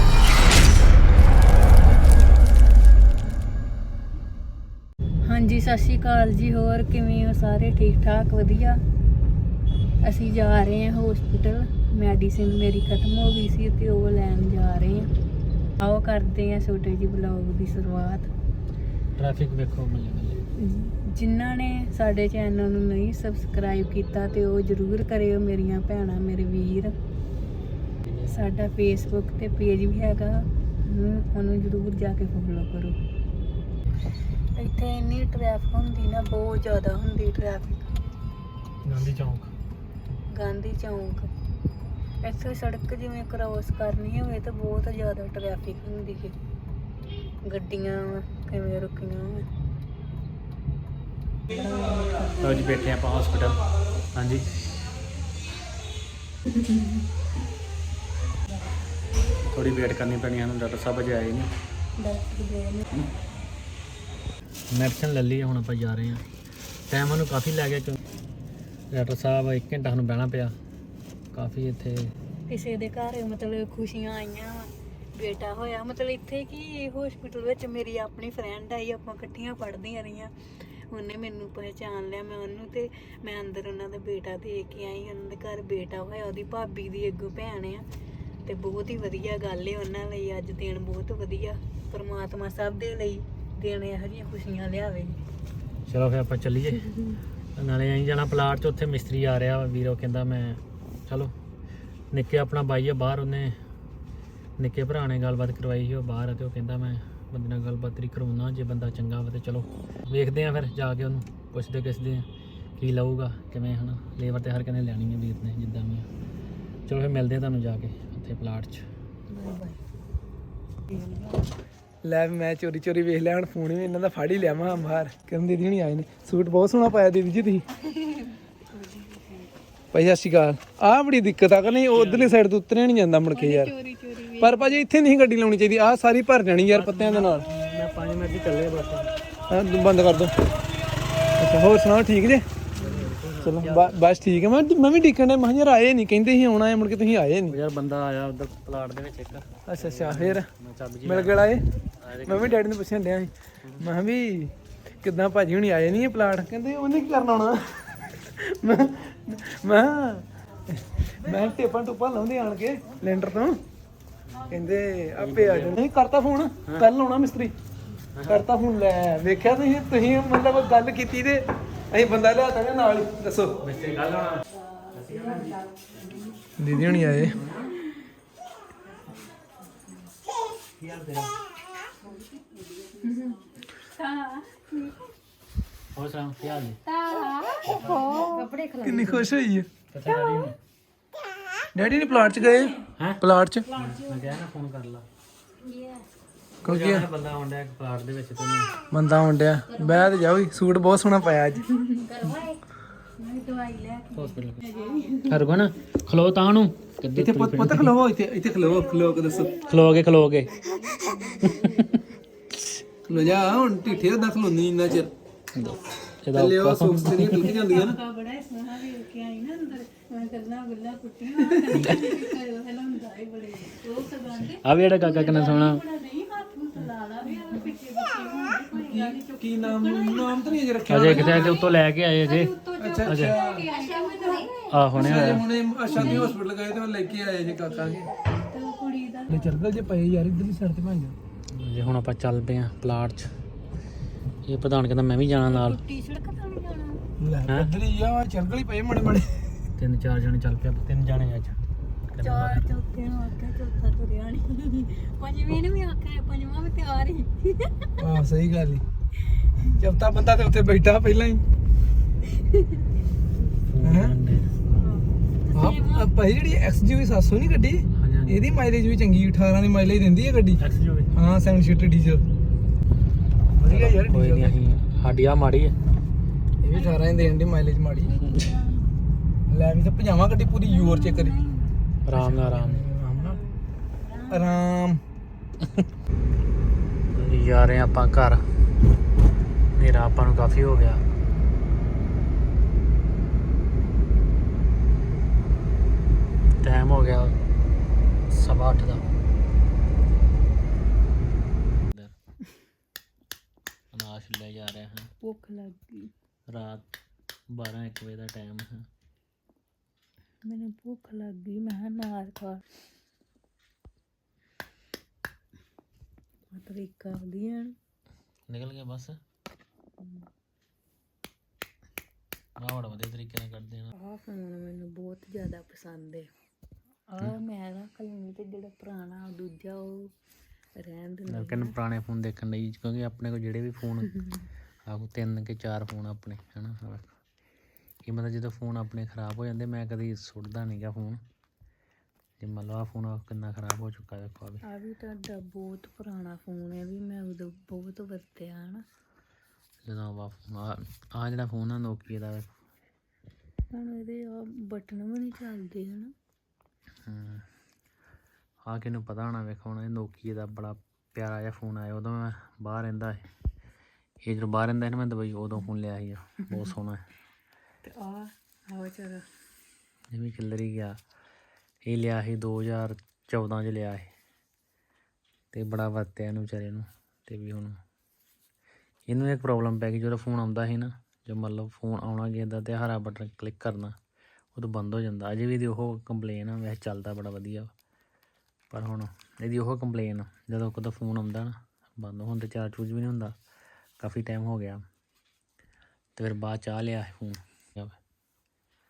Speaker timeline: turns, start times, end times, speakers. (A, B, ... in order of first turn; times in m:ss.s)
0:05.2-0:08.8 A
0:10.0-0:15.1 A
0:15.8-0:18.3 A
0:19.2-0:20.4 B
0:20.6-0:27.0 A
0:28.0-0:28.4 B
0:28.2-0:33.0 A
0:34.5-0:37.9 A
0:38.8-0:39.5 B
0:40.3-0:41.3 A
0:42.2-0:46.4 A
0:47.4-0:49.5 A
0:51.5-0:52.7 A
0:52.4-0:54.7 B
0:59.5-1:01.5 B
1:02.0-1:02.9 A
1:04.7-1:06.2 B
1:06.9-1:08.0 B
1:08.9-1:10.5 B
1:11.3-1:12.1 B
1:12.5-1:27.8 A
1:28.4-1:35.2 A
1:35.9-1:36.9 B
1:37.6-1:41.3 B
1:42.1-1:43.6 B
1:44.6-1:52.3 B
1:52.8-1:56.0 B
1:56.9-1:58.8 B
1:59.3-1:59.8 A
2:00.9-2:01.5 A
2:02.0-2:07.6 C
2:07.8-2:09.5 A
2:09.9-2:13.7 C
2:11.9-2:12.4 B
2:13.3-2:14.8 A
2:14.3-2:17.5 C
2:16.6-2:19.1 B
2:19.5-2:20.4 C
2:21.4-2:22.5 C
2:22.8-2:24.0 B
2:22.8-2:23.0 A
2:23.4-2:27.6 C
2:27.5-2:32.6 B
2:29.6-2:30.5 C
2:31.0-2:31.6 C
2:32.2-2:43.6 C
2:33.6-2:33.9 B
2:44.5-2:47.5 C
2:45.2-2:45.8 B
2:48.1-2:48.5 B
2:48.3-2:53.6 C
2:53.6-2:56.3 B
2:56.6-2:57.4 C
2:56.7-2:57.3 A
2:57.1-2:57.8 B
3:00.8-3:01.3 B
3:03.0-3:05.0 A
3:05.9-3:06.8 B
3:07.0-3:09.0 A
3:07.6-3:08.2 B
3:08.8-3:09.7 C
3:09.9-3:10.6 B
3:11.7-3:13.7 C
3:12.2-3:12.7 A
3:12.9-3:13.2 B
3:13.7-3:15.0 B
3:13.8-3:14.1 A
3:15.6-3:16.0 A
3:16.6-3:17.1 C
3:16.6-3:18.8 B
3:18.9-3:21.8 C
3:23.2-3:25.4 A
3:24.1-3:24.7 B
3:25.3-3:28.0 B
3:27.2-3:29.7 C
3:29.6-3:31.8 B
3:30.7-3:31.8 A
3:33.0-3:35.1 C
3:35.5-3:37.5 B
3:36.3-3:38.0 C
3:37.2-3:54.6 A
3:44.5-3:45.8 B
3:48.9-3:51.6 C
3:50.9-3:53.4 B
3:52.8-3:53.8 C
3:54.7-3:55.4 B
3:54.9-3:58.0 C
3:55.8-3:56.4 A
3:57.1-3:59.6 A
3:59.3-4:01.2 C
4:01.5-4:03.3 B
4:04.4-4:05.8 B
4:05.4-4:07.0 A
4:07.2-4:09.5 C
4:07.4-4:07.7 B
4:09.8-4:12.7 B
4:12.2-4:17.9 A
4:18.0-4:18.8 C
4:19.6-4:21.4 C
4:22.3-4:22.7 A
4:23.7-4:24.5 B
4:23.8-4:24.1 C
4:24.7-4:26.1 A
4:25.5-4:30.6 C
4:28.0-4:28.5 B
4:30.6-4:31.1 B
4:31.1-4:32.2 C
4:33.6-4:34.6 C
4:33.6-4:35.8 B
4:36.6-4:38.2 C
4:36.6-4:37.3 A
4:38.0-4:39.0 A
4:39.5-4:41.4 C
4:40.6-4:41.8 A
4:42.0-4:42.9 B
4:42.1-4:43.4 C
4:43.1-4:44.6 A
4:44.3-4:45.0 C
4:47.1-4:48.5 B
4:49.7-4:51.0 B
4:56.6-4:57.4 B
4:58.3-4:59.0 B
5:03.9-5:05.1 B
5:05.2-5:06.1 A
5:06.5-5:06.8 B
5:07.5-5:08.9 B
5:10.4-5:12.6 A
5:16.5-5:17.8 A
5:18.5-5:19.2 B
5:20.0-5:20.3 A
5:22.6-5:23.9 B
5:23.9-5:26.3 A
5:27.1-5:30.1 A
5:30.8-5:31.7 A
5:31.3-5:34.2 B
5:34.8-5:37.1 B
5:38.0-5:41.2 B
5:42.4-5:44.6 B
5:44.6-5:48.8 A
5:49.8-5:52.5 B
5:53.7-5:56.1 A
5:57.0-5:57.4 B
5:58.6-6:03.3 B
6:04.2-6:07.0 B
6:07.8-6:09.2 A
6:10.1-6:11.0 B
6:11.8-6:14.1 B
6:15.5-6:17.8 B
6:19.1-6:23.9 B
6:24.5-6:27.7 B
6:28.7-6:33.3 B
6:34.0-6:34.8 B
6:36.2-6:37.9 B